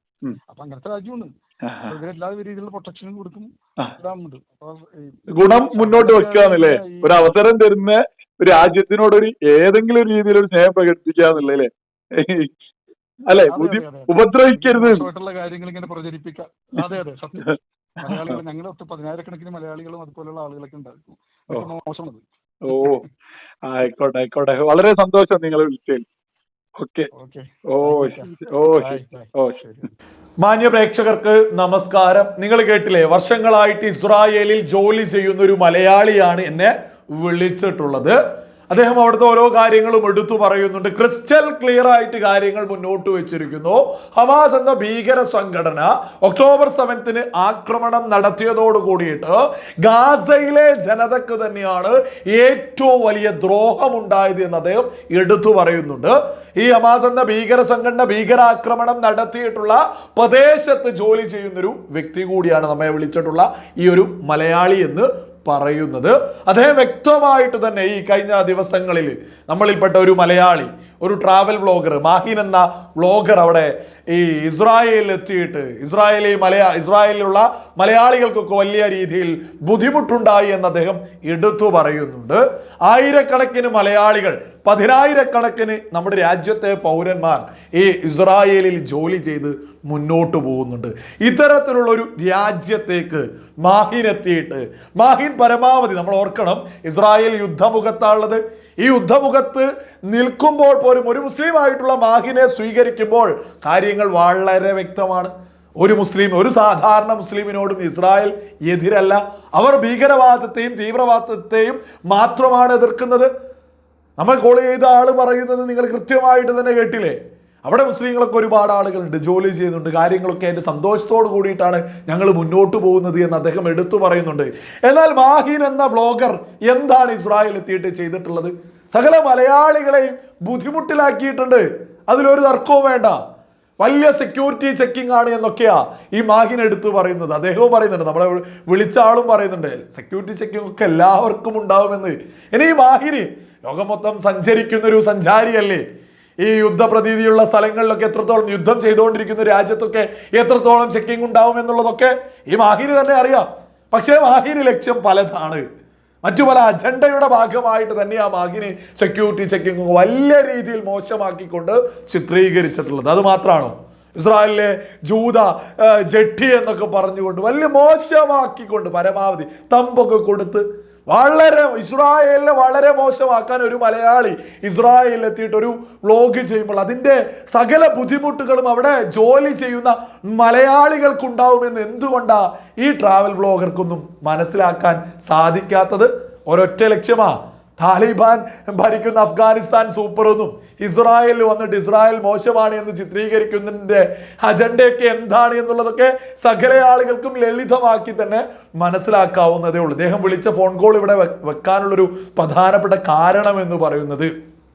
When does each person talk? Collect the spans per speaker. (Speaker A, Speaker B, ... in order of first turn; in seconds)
Speaker A: 0.5-1.3, 1.9-7.4, 13.5-23.1, 27.1-29.9
Speaker B: 1.7-1.9, 5.3-12.5, 13.3-15.1, 17.5-18.4, 22.7-23.0, 23.7-26.1, 26.8-27.1, 27.7-29.6
Speaker C: 30.4-38.2, 38.7-113.3, 114.2-133.2, 133.8-145.8, 146.4-155.6, 156.2-204.3